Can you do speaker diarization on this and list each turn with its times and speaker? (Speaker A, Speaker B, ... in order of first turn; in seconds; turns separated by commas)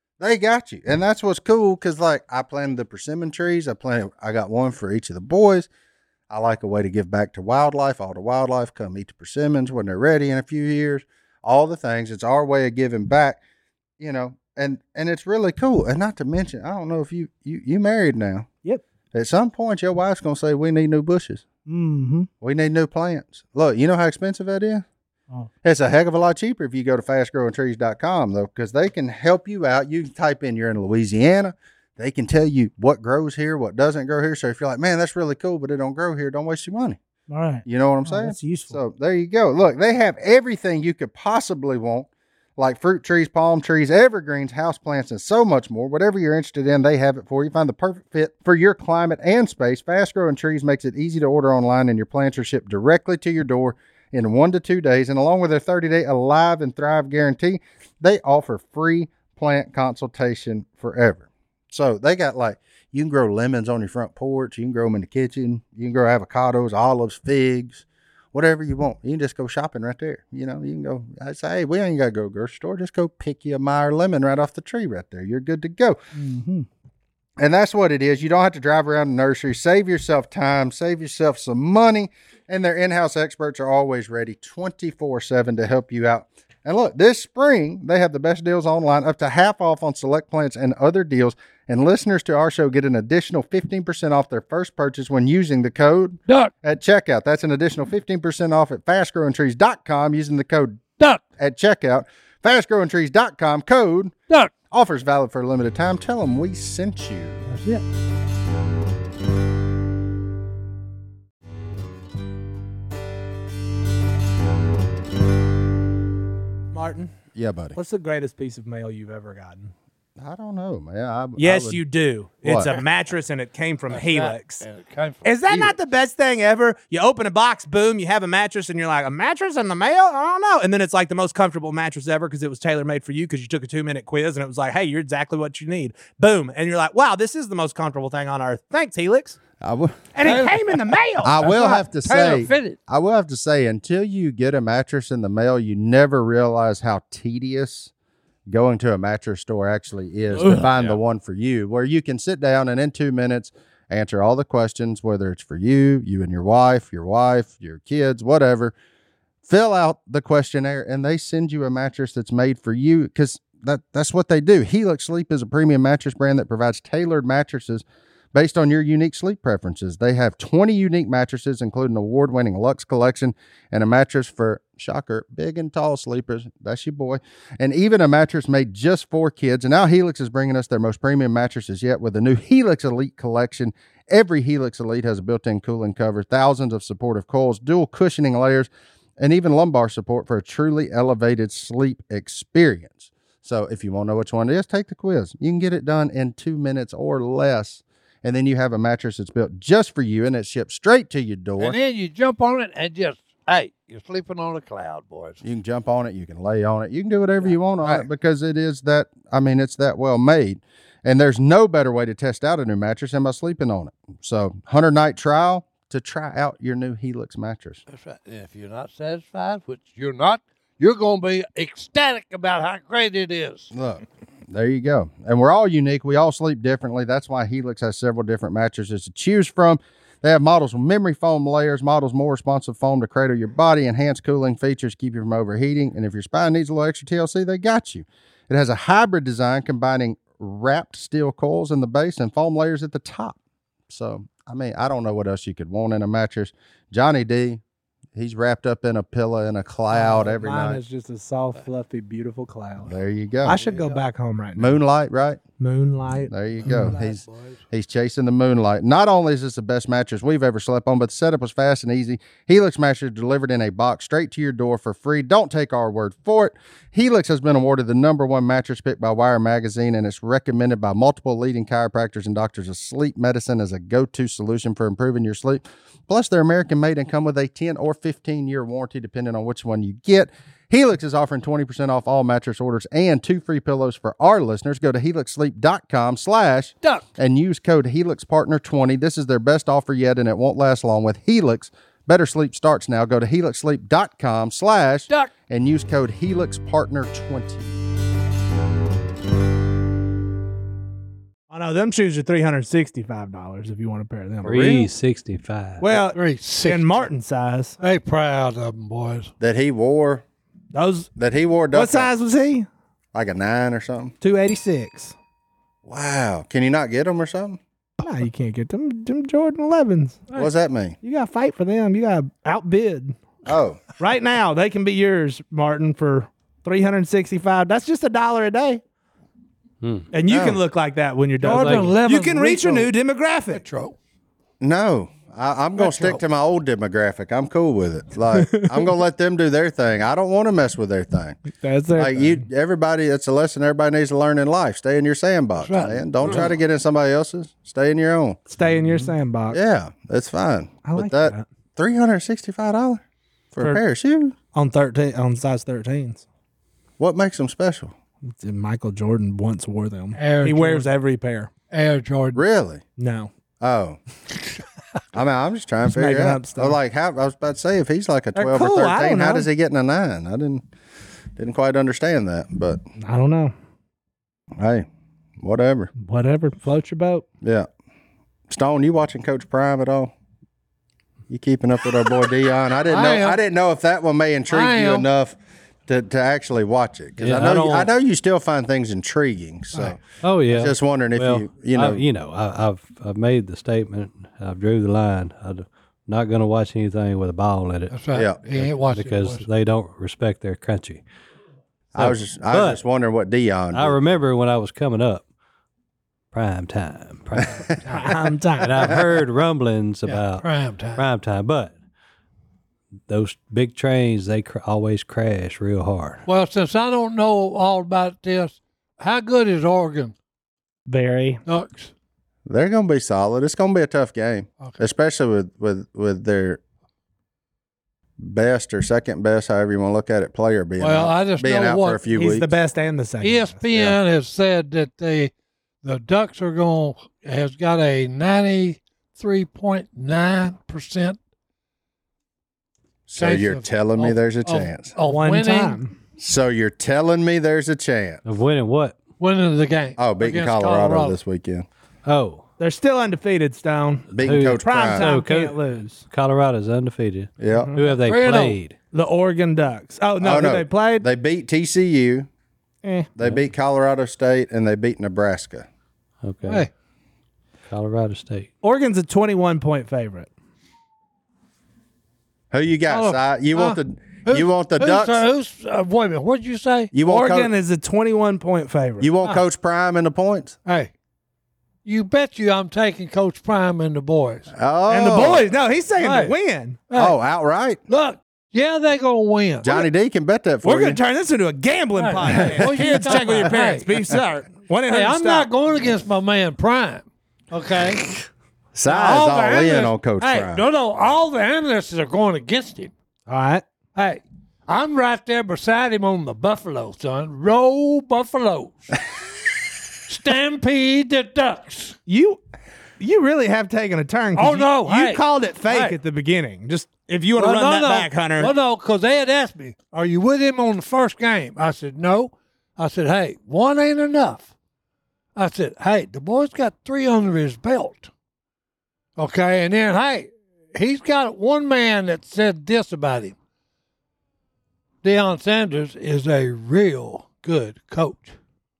Speaker A: 0.2-5.7, Speaker A: 6.3-13.4, Speaker A: 14.0-18.5, Speaker A: 19.1-21.4, Speaker B: 21.6-22.3, Speaker A: 22.4-24.8, Speaker A: 25.6-37.0, Speaker B: 37.3-38.8, Speaker A: 37.6-76.0, Speaker B: 76.1-76.7, Speaker A: 77.4-100.8, Speaker A: 101.4-104.1, Speaker A: 104.7-107.4, Speaker C: 107.5-107.8, Speaker D: 116.7-117.1, Speaker A: 117.3-117.8, Speaker D: 117.7-119.7, Speaker A: 120.2-121.8, Speaker D: 121.4-124.6, Speaker A: 122.4-122.7, Speaker C: 123.9-125.6, Speaker D: 125.2-139.4, Speaker A: 139.6-140.1, Speaker D: 140.1-141.4, Speaker C: 140.2-142.8, Speaker A: 141.2-147.9, Speaker A: 148.5-158.7, Speaker C: 150.4-150.6, Speaker A: 159.4-201.8, Speaker C: 201.6-205.4, Speaker A: 205.4-217.8, Speaker C: 207.4-208.1, Speaker C: 217.9-223.7, Speaker A: 223.7-243.4, Speaker A: 243.9-247.6, Speaker A: 248.1-250.8, Speaker D: 249.9-254.8, Speaker A: 252.8-253.6, Speaker C: 253.5-254.0, Speaker A: 254.6-255.4, Speaker D: 255.6-256.9, Speaker A: 256.3-297.8, Speaker C: 256.6-257.6, Speaker D: 301.5-304.8, Speaker E: 304.4-305.8, Speaker D: 305.8-307.8, Speaker C: 306.1-307.1, Speaker C: 307.8-309.3, Speaker A: 309.4-310.2, Speaker D: 310.7-311.1, Speaker A: 311.2-312.1, Speaker D: 311.7-312.7, Speaker A: 313.1-314.1, Speaker D: 314.2-315.1, Speaker A: 315.9-317.6, Speaker D: 318.0-320.3, Speaker A: 320.3-321.0, Speaker D: 321.0-323.2, Speaker A: 323.4-323.8, Speaker D: 324.0-328.8, Speaker E: 329.8-330.1, Speaker D: 330.1-333.6, Speaker A: 330.3-330.6, Speaker C: 331.4-332.9, Speaker E: 331.4-331.9, Speaker C: 333.5-333.9, Speaker A: 334.6-341.4, Speaker C: 335.8-336.2, Speaker D: 338.4-338.8, Speaker D: 341.5-342.4, Speaker A: 341.9-348.4, Speaker C: 345.6-346.5, Speaker D: 348.5-349.6, Speaker A: 349.5-353.0, Speaker D: 350.9-351.4, Speaker A: 353.5-354.3, Speaker D: 354.5-356.2, Speaker A: 357.0-357.9, Speaker D: 358.3-361.5, Speaker C: 360.1-360.9, Speaker C: 361.7-362.4, Speaker A: 362.3-362.8, Speaker D: 363.0-363.3, Speaker A: 363.6-364.0, Speaker A: 365.1-370.6, Speaker D: 365.9-366.8, Speaker D: 368.3-369.5, Speaker A: 371.4-372.8, Speaker D: 373.0-373.5, Speaker A: 374.6-374.9, Speaker A: 375.4-375.9, Speaker D: 376.0-377.2, Speaker A: 377.4-377.7, Speaker A: 378.5-380.1, Speaker A: 381.3-385.4, Speaker C: 382.9-383.4, Speaker C: 384.5-385.1, Speaker A: 385.9-392.0, Speaker E: 387.2-387.9, Speaker E: 390.2-397.9, Speaker C: 397.9-399.4, Speaker E: 398.5-401.0, Speaker A: 401.9-404.1, Speaker E: 401.9-402.8, Speaker E: 403.7-405.2, Speaker E: 406.3-407.6, Speaker C: 407.8-408.1, Speaker D: 407.9-408.9, Speaker E: 408.6-411.7, Speaker C: 410.1-411.0, Speaker E: 413.1-416.2, Speaker C: 416.2-420.1, Speaker D: 420.9-421.4, Speaker C: 421.4-421.9, Speaker A: 422.4-426.6, Speaker A: 428.2-432.5, Speaker C: 430.8-432.0, Speaker D: 432.1-433.5, Speaker C: 433.2-435.3, Speaker A: 433.7-434.0, Speaker C: 435.8-441.2, Speaker A: 443.1-444.9, Speaker C: 443.2-445.8, Speaker D: 445.0-445.9, Speaker A: 446.2-448.2, Speaker E: 448.2-449.0, Speaker C: 449.2-451.2, Speaker A: 450.0-451.6, Speaker E: 452.0-452.4, Speaker D: 452.6-456.0, Speaker A: 454.1-455.1, Speaker E: 454.2-458.7, Speaker A: 457.4-457.7, Speaker D: 457.5-457.8, Speaker C: 458.0-458.6, Speaker D: 458.9-461.0, Speaker A: 460.2-462.3, Speaker D: 462.8-463.1, Speaker A: 463.2-465.6, Speaker E: 466.2-466.7, Speaker C: 466.4-466.7, Speaker E: 467.7-468.5, Speaker D: 468.6-470.3, Speaker A: 472.5-475.2, Speaker C: 472.9-476.9, Speaker A: 476.9-477.5, Speaker D: 477.1-479.1, Speaker A: 479.0-480.6, Speaker C: 480.6-480.9, Speaker C: 481.8-484.5, Speaker A: 484.5-485.4, Speaker D: 484.9-486.8, Speaker C: 486.0-486.3, Speaker C: 486.9-487.1, Speaker A: 486.9-487.8, Speaker C: 487.9-489.8, Speaker A: 489.6-491.0, Speaker D: 490.6-495.5, Speaker C: 492.0-493.9, Speaker C: 494.9-498.2, Speaker A: 498.7-500.6, Speaker C: 498.9-502.9, Speaker D: 503.3-503.6, Speaker C: 503.9-509.0, Speaker C: 510.1-512.0, Speaker D: 512.1-512.4, Speaker D: 513.0-518.5, Speaker C: 514.3-516.0, Speaker C: 517.4-524.5, Speaker C: 525.4-528.1, Speaker C: 529.2-533.4, Speaker C: 535.0-538.4